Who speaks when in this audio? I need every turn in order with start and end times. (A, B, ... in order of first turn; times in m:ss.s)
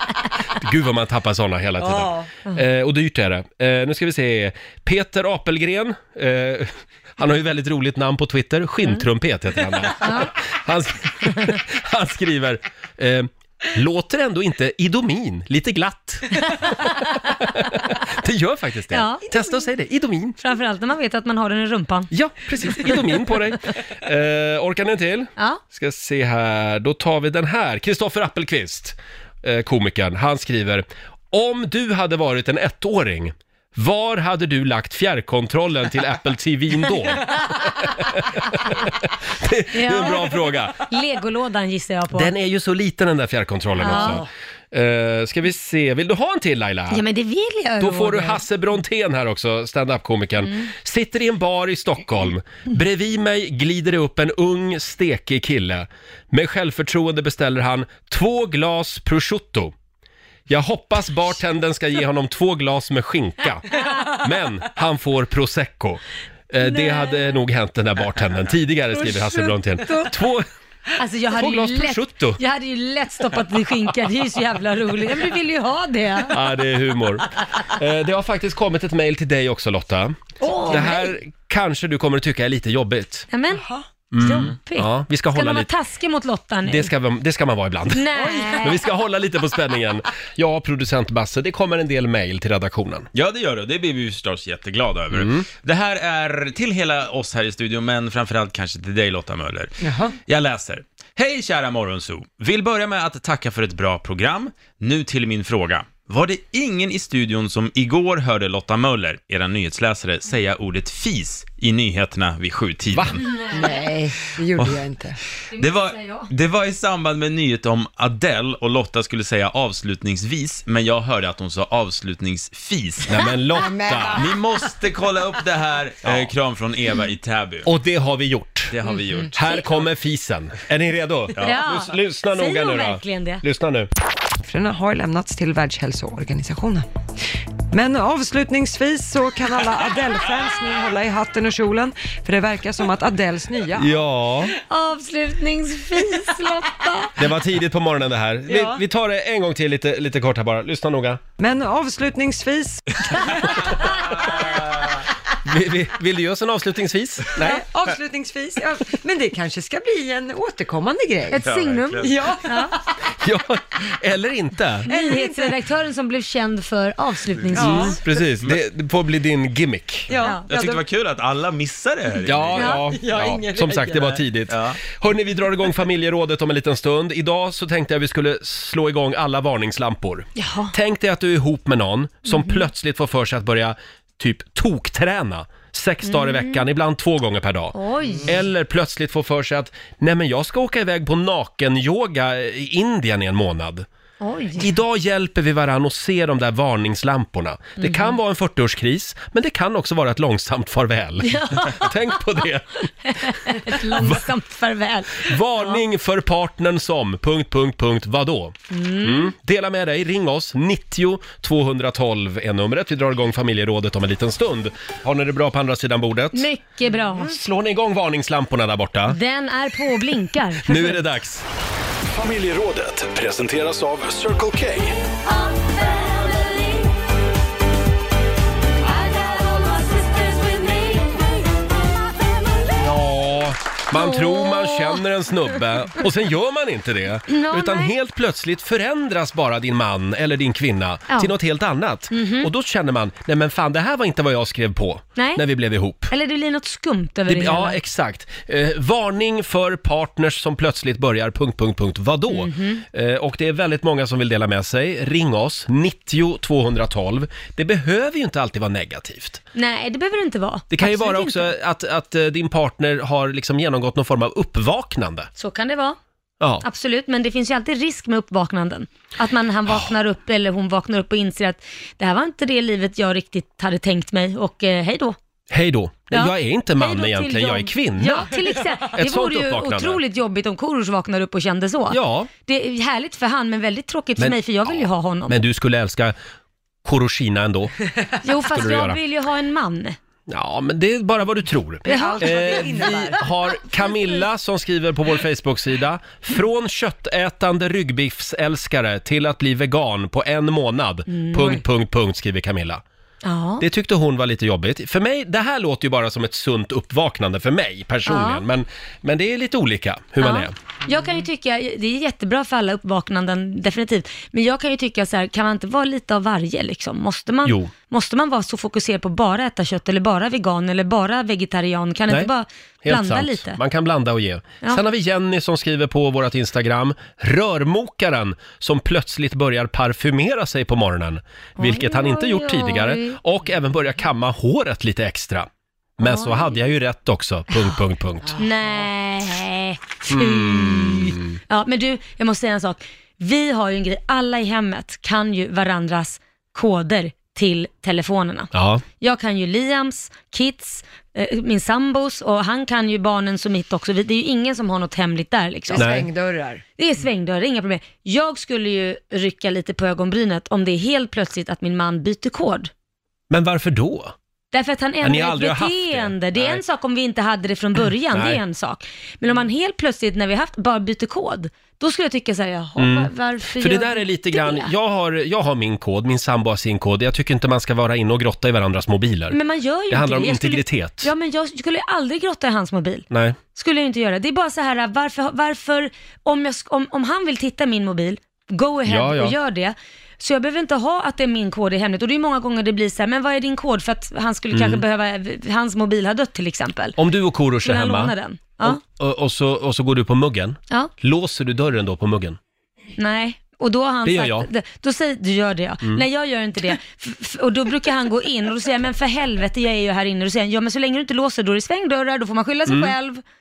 0:00.5-0:20.4 A
0:01.8-0:02.3 B
0:10.0-0:10.3 C
0:18.9-0:19.3 C
0:20.4-0:22.1 C
0:22.1-0:40.9 A
0:39.7-0:42.3 C
0:42.1-0:47.0 A
0:43.8-0:44.3 C
0:46.9-0:48.4 C
0:47.8-0:59.7 A
1:00.5-1:10.5 A
1:03.7-1:04.2 C
1:06.6-1:07.3 C
1:11.0-1:16.4 C
1:11.4-1:12.4 A
1:16.3-1:23.3 A
1:20.4-1:21.1 C
1:23.3-1:26.9 C
1:24.1-1:25.7 A
1:26.6-1:28.1 A
1:27.9-1:28.8 C
1:28.2-1:28.8 B
1:28.6-1:33.1 A
1:33.1-1:53.2 D
1:35.1-1:35.4 A
1:39.8-1:40.2 B
1:53.2-1:53.7 C
1:53.5-1:55.2 B
1:54.6-1:54.8 D
1:55.5-2:03.2 D
1:55.5-1:56.3 C
2:03.1-2:04.2 A
2:03.5-2:04.2 B
2:04.1-2:07.7 D
2:06.0-2:06.3 A
2:07.6-2:08.8 A
2:08.7-2:09.4 D
2:09.3-2:13.9 A
2:09.4-2:09.7 C
2:11.4-2:13.4 C
2:14.5-2:16.9 B
2:17.7-2:24.0 B
2:23.8-2:24.6 A
2:24.6-2:27.2 C
2:27.2-2:31.2 A
2:28.5-2:28.8 B
2:31.4-2:33.8 B
2:33.5-2:33.9 A
2:35.4-2:37.6 A
2:37.4-2:41.4 B
2:41.3-2:42.8 C
2:41.4-2:42.1 D
2:42.0-2:42.8 B
2:43.2-2:44.9 A
2:44.9-2:48.0 C
2:44.9-2:45.6 B
2:47.5-2:48.0 B
2:47.6-2:50.1 A
2:50.1-2:50.8 B
2:50.1-2:50.5 C
2:50.5-2:52.7 D
2:52.2-3:13.9 A
2:52.8-2:54.2 B
2:54.5-2:54.8 D
3:00.4-3:00.7 C
3:02.3-3:02.7 C
3:06.0-3:06.6 C
3:07.7-3:08.3 C
3:14.2-3:14.7 C
3:14.6-3:24.2 A
3:17.8-3:18.2 C
3:21.2-3:21.9 C
3:23.0-3:25.8 C
3:25.2-3:36.5 A
3:28.7-3:29.3 C
3:36.3-3:37.3 C
3:37.2-3:39.2 A
3:39.1-3:41.0 C
3:40.7-3:41.4 A
3:42.1-3:45.0 E
3:45.5-3:46.8 C
3:49.0-3:51.1 C
3:52.8-4:06.1 A
3:53.9-3:55.0 C
3:57.3-3:58.0 C
4:02.1-4:02.5 C
4:05.2-4:05.4 C
4:06.1-4:07.8 C
4:07.3-4:19.4 A
4:12.3-4:12.8 C
4:19.5-4:21.5 C
4:20.7-4:25.3 A
4:25.4-4:26.0 C
4:26.4-4:26.7 A
4:26.6-4:35.2 C
4:35.5-4:40.0 A
4:36.1-4:45.4 C
4:41.9-4:42.3 A
4:44.2-4:46.2 A
4:46.8-4:47.8 A
4:48.2-4:50.0 C
4:48.5-4:49.0 A
4:50.3-5:02.8 A
4:51.9-4:52.9 C
4:51.9-4:53.2 B
5:01.1-5:01.5 C
5:03.2-5:03.6 C
5:03.6-5:10.5 A
5:08.1-5:08.4 C
5:10.2-5:23.6 C
5:17.4-5:17.7 A
5:22.8-5:38.4 A
5:31.6-5:33.2 C
5:36.0-5:36.6 C
5:38.4-5:56.0 C
5:40.1-5:41.3 A
5:48.5-5:48.8 A
5:55.7-5:56.6 B
5:55.8-5:56.1 A
5:56.8-6:02.7 C
6:03.3-6:04.1 A
6:04.5-6:14.7 C
6:05.0-6:06.6 A
6:08.1-6:08.4 A
6:12.8-6:19.4 A
6:19.3-6:37.0 C
6:19.9-6:21.1 A
6:23.1-6:23.4 A
6:28.9-6:29.4 A
6:34.5-6:34.8 A
6:37.0-6:42.4 A
6:37.6-6:38.8 C
6:43.0-6:53.2 C
6:44.0-6:44.5 A
6:52.7-6:53.0 A